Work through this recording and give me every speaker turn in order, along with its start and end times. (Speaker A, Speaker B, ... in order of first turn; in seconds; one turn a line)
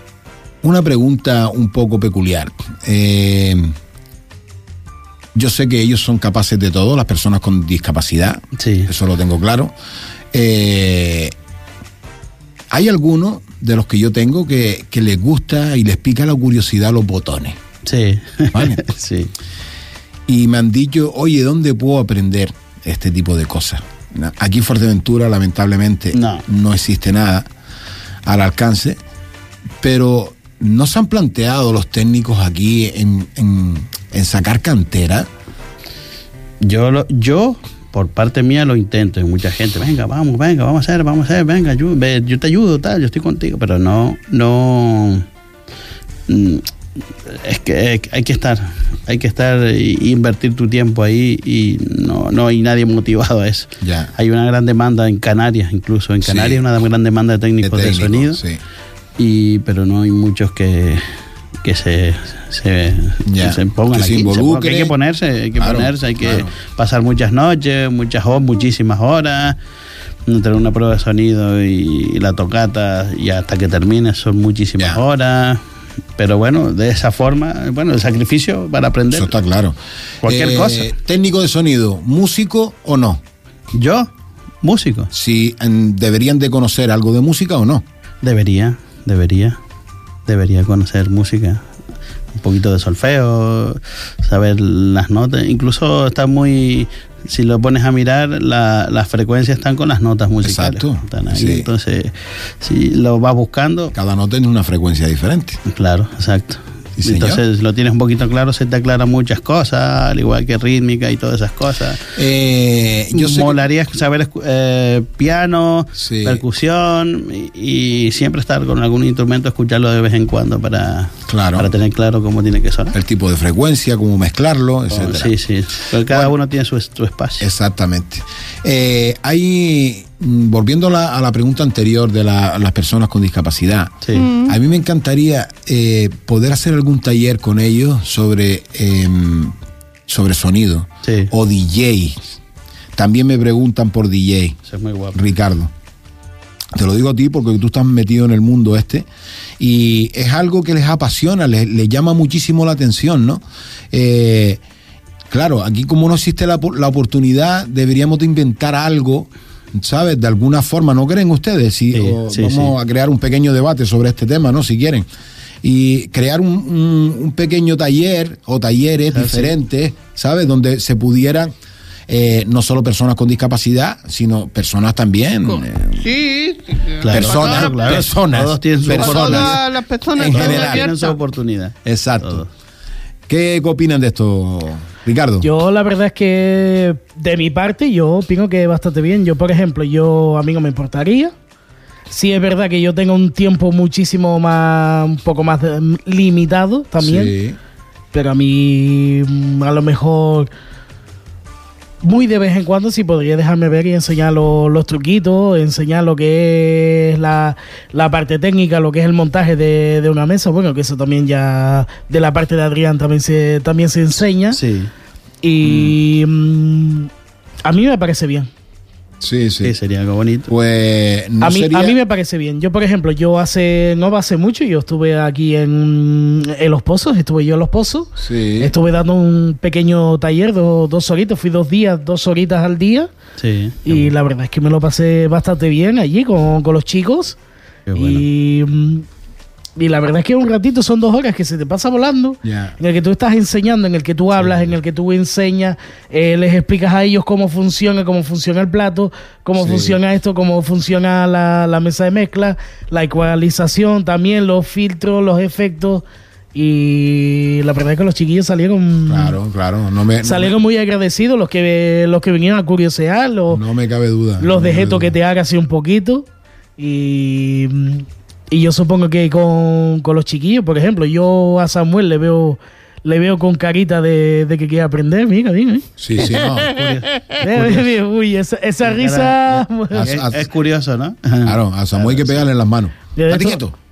Speaker A: 0.6-3.7
Speaker A: 5.3-9.7
Speaker B: 8.6-8.9
Speaker A: 10.3-11.3
Speaker A: 12.7-17.6
Speaker B: 17.8-19.3
Speaker A: 18.5-18.8
Speaker A: 20.3-27.5
Speaker B: 26.1-26.4
Speaker A: 28.2-29.0
Speaker A: 29.8-35.3
Speaker B: 36.6-45.3
Speaker B: 46.3-46.7
Speaker B: 47.2-58.4
Speaker A: 53.8-54.1
Speaker A: 56.2-56.6
Speaker A: 57.6-58.6
Speaker B: 59.2-61.1
Speaker B: 61.6-69.6
Speaker A: 63.2-64.9
Speaker A: 65.6-66.5
Speaker B: 70.3-75.6
Speaker B: 76.2-79.3
Speaker A: 79.1-83.2
Speaker B: 80.2-80.9
Speaker B: 83.7-84.1
Speaker B: 84.6-85.1
Speaker A: 85.1-87.8
Speaker B: 88.2-89.6
Speaker B: 90.2-91.6
Speaker B: 92.3-103.9
Speaker A: 100.4-101.7
Speaker A: 103.9-105.6
Speaker B: 105.7-112.1
Speaker A: 107.0-107.4
Speaker A: 112.1-113.6
Speaker B: 113.1-122.9
Speaker A: 116.0-116.4
Speaker A: 121.3-121.7
Speaker A: 122.9-125.3
Speaker B: 124.9-127.5
Speaker A: 126.0-126.3
Speaker A: 127.4-139.5
Speaker B: 134.0-134.3
Speaker C: 134.1-134.6
Speaker A: 140.1-142.2
Speaker B: 141.0-141.3
Speaker A: 142.9-144.6
Speaker B: 144.7-145.2
Speaker A: 145.1-145.7
Speaker A: 146.7-149.1
Speaker A: 149.6-154.6
Speaker A: 155.3-165.1
Speaker B: 161.9-162.7
Speaker A: 165.6-171.5
Speaker B: 169.1-169.5
Speaker A: 172.1-176.1
Speaker C: 175.5-177.8
Speaker B: 177.0-179.6
Speaker A: 177.1-179.6
Speaker C: 178.9-181.2
Speaker A: 180.2-180.9
Speaker B: 180.2-182.5
Speaker A: 181.8-182.4
Speaker A: 183.3-185.5
Speaker D: 185.4-191.3
Speaker D: 192.1-197.3
Speaker A: 197.0-197.6
Speaker D: 198.1-200.5
Speaker D: 202.0-214.6
Speaker B: 214.5-214.9
Speaker D: 215.4-217.1
Speaker A: 215.6-215.9
Speaker D: 217.6-218.5
Speaker A: 219.2-219.7
Speaker B: 219.6-220.5
Speaker A: 220.5-222.0
Speaker D: 221.4-233.1
Speaker A: 228.2-228.7
Speaker B: 233.4-234.1
Speaker D: 233.8-237.4
Speaker B: 237.9-238.2
Speaker D: 237.9-239.0
Speaker D: 239.8-259.4
Speaker A: 242.4-242.7
Speaker A: 249.6-250.0
Speaker A: 259.1-260.5
Speaker D: 260.2-263.6
Speaker A: 263.5-265.1
Speaker D: 264.4-266.2
Speaker D: 266.8-275.9
Speaker A: 276.0-276.8
Speaker B: 276.2-277.9
Speaker C: 276.6-277.3
Speaker D: 277.4-280.1
Speaker B: 278.8-282.4
Speaker A: 279.9-280.5
Speaker A: 281.4-283.8
Speaker D: 283.1-283.6